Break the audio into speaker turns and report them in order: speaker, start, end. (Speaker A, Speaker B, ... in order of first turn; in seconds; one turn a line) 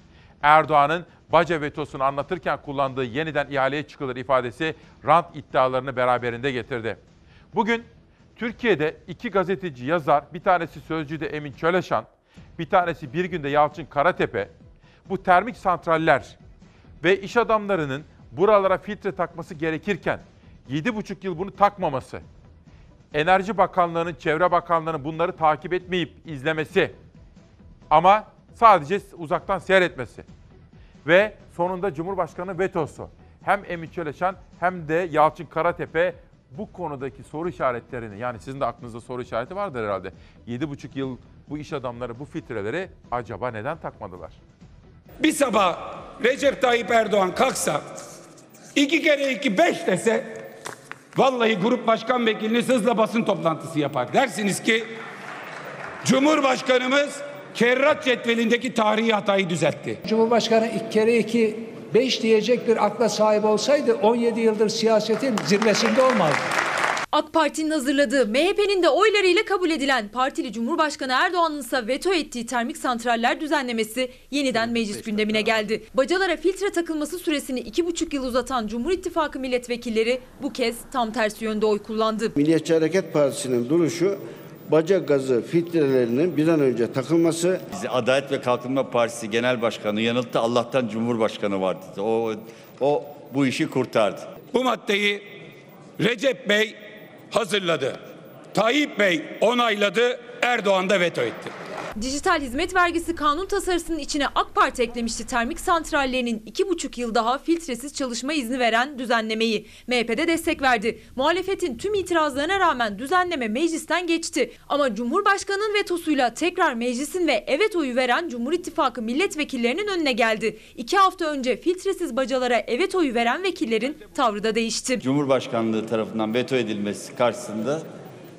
Speaker A: 0.4-7.0
Speaker A: 7.5-12.1
Speaker A: 12.6-14.5
Speaker A: 15.1-16.4
Speaker A: 17.0-22.2
Speaker A: 23.1-26.9
Speaker A: 27.9-30.2
Speaker A: 31.0-44.4
Speaker B: 45.2-48.0
Speaker B: 48.7-50.5
Speaker B: 51.1-55.0
Speaker B: 56.0-60.0
Speaker C: 60.0-66.5
Speaker D: 67.1-82.3
Speaker E: 82.4-87.6
Speaker F: 87.7-94.3
Speaker B: 94.5-95.5
Speaker B: 96.0-96.8
Speaker B: 97.3-98.0
Speaker B: 98.5-101.5
Speaker D: 102.0-125.0
Speaker F: 125.0-127.8